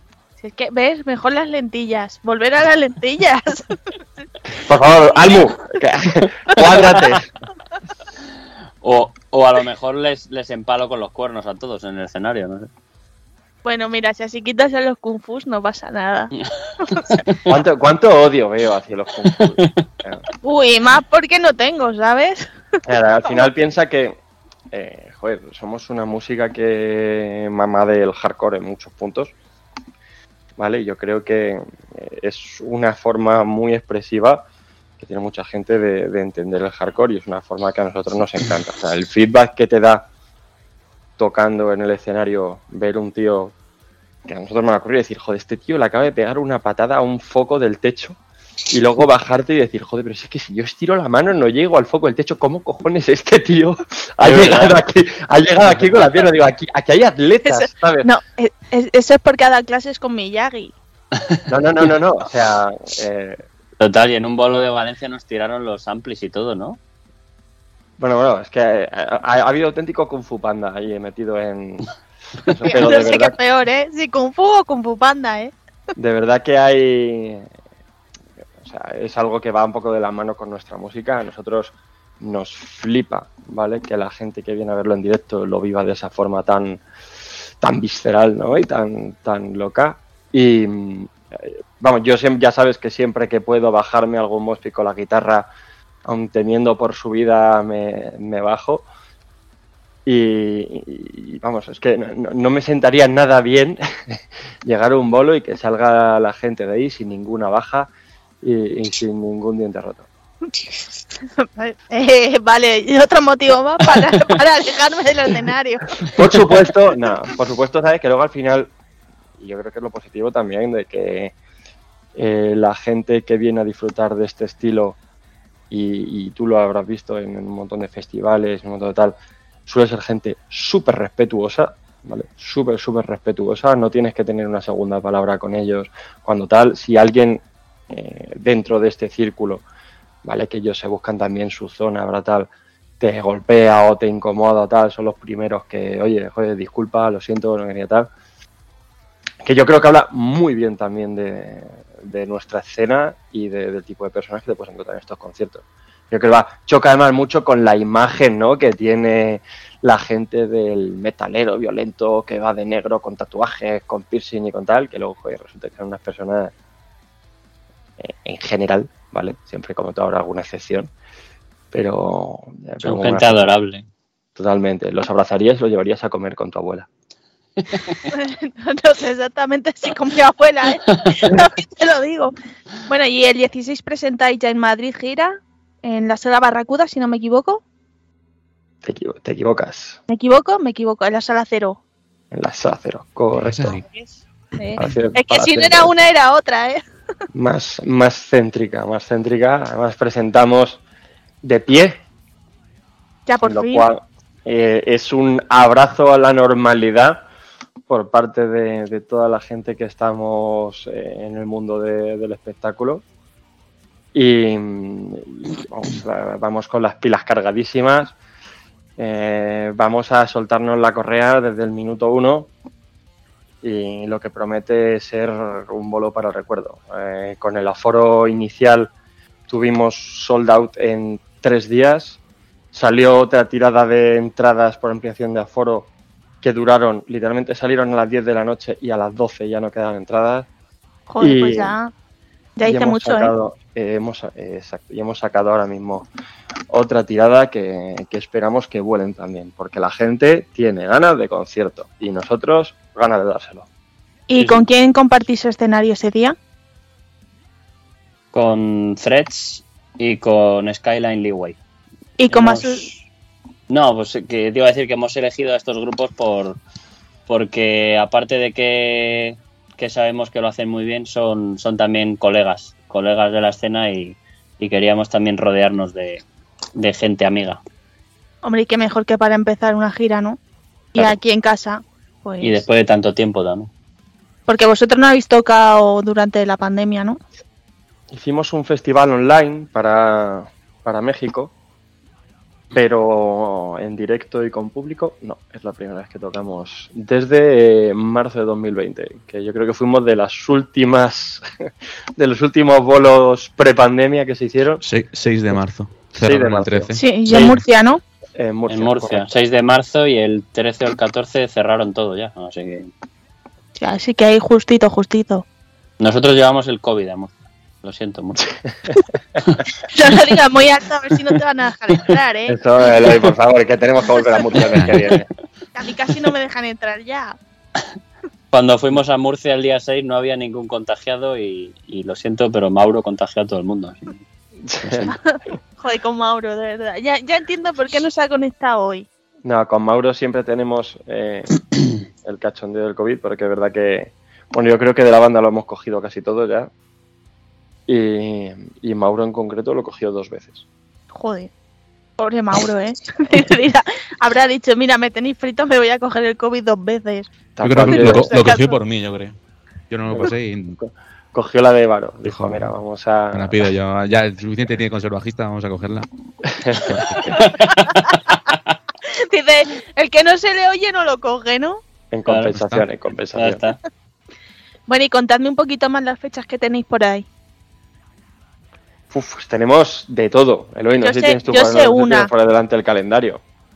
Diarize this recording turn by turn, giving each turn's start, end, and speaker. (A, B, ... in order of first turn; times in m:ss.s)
0:00.4-0:03.8 A
0:04.6-0:07.3 B
0:08.8-0:12.7 C
0:13.6-0:16.3 A
0:17.5-0:20.2 B
0:20.4-0:22.5 A
0:22.8-0:24.2 B
0:24.7-0:29.3 B
0:30.6-0:34.4 B
0:35.0-0:40.1 B
0:41.2-0:43.6 B
0:44.3-0:48.2 B
0:48.7-0:58.1 B
0:54.3-0:54.8 C
0:57.4-1:00.8 A
1:01.5-1:03.4 B
1:03.8-1:06.8 C
1:08.0-1:11.9 B
1:12.4-1:13.4 B
1:12.6-1:15.5 A
1:16.0-1:17.5 B
1:18.6-1:26.8 B
1:27.6-1:35.5 B
1:36.1-1:38.9 B
1:40.1-1:47.9 B
1:48.4-1:50.1 B
1:51.4-1:56.2 A
1:56.1-1:58.7 B
1:59.4-2:01.3 B
2:02.2-2:05.0 B
2:05.7-2:09.2 B
2:09.7-2:19.6 B
2:20.2-2:22.5 B
2:23.0-2:28.1 B
2:29.4-2:46.5 B
2:48.0-2:50.9 B
2:51.7-2:53.5 B
2:52.8-2:53.8 C
2:54.4-2:56.9 B
2:58.1-3:02.3 A
3:02.9-3:07.6 A
3:08.8-3:10.0 B
3:10.1-3:11.8 A
3:12.3-3:13.8 B
3:13.3-3:13.8 D
3:13.9-3:16.8 A
3:14.8-3:15.9 B
3:17.3-3:20.8 B
3:21.4-3:22.0 B
3:23.3-3:23.9 A
3:23.4-3:27.2 B
3:27.9-3:33.0 B
3:34.1-3:38.2 B
3:39.0-3:42.5 B
3:43.6-3:48.9 B
3:49.5-3:52.2 B
3:52.7-3:55.9 B
3:56.4-4:00.5 B
4:01.1-4:01.9 A
4:01.2-4:01.8 B
4:02.6-4:03.3 A
4:02.6-4:06.1 B
4:06.7-4:13.7 B
4:14.3-4:16.4 A
4:18.3-4:21.6 C
4:22.2-4:22.9 A
4:22.3-4:23.0 C
4:23.7-4:26.6 C
4:27.3-4:36.2 C
4:36.8-4:37.6 C
4:38.4-4:40.4 A
4:40.9-4:42.6 A
4:42.4-4:43.7 C
4:44.5-4:47.2 A
4:48.1-4:51.5 B
4:52.7-5:04.8 B
5:04.8-5:07.5 D
5:06.1-5:07.6 B
5:06.9-5:08.0 A
5:08.4-5:09.2 B
5:08.7-5:12.9 C
5:13.8-5:15.4 A
5:16.0-5:18.4 C
5:19.8-5:22.6 A
5:22.5-5:25.3 B
5:25.8-5:27.4 A
5:28.5-5:34.2 C
5:34.6-5:35.1 B
5:35.1-5:39.1 A
5:39.4-5:41.6 B
5:42.2-5:46.7 B
5:47.9-5:50.6 B
5:51.1-5:51.5 A
5:52.2-5:58.8 A
5:57.6-5:58.4 B
5:57.6-5:59.4 D
5:59.9-6:00.8 D
6:00.1-6:03.7 B
6:02.3-6:02.7 D
6:03.3-6:06.1 D
6:06.4-6:07.5 B
6:06.8-6:07.4 D
6:07.5-6:08.1 C
6:09.1-6:11.8 A
6:12.1-6:13.6 B
6:12.3-6:12.5 C
6:12.6-6:12.8 D
6:13.4-6:13.8 C
6:14.9-6:17.3 A
6:19.1-6:23.4 B
6:21.0-6:22.3 A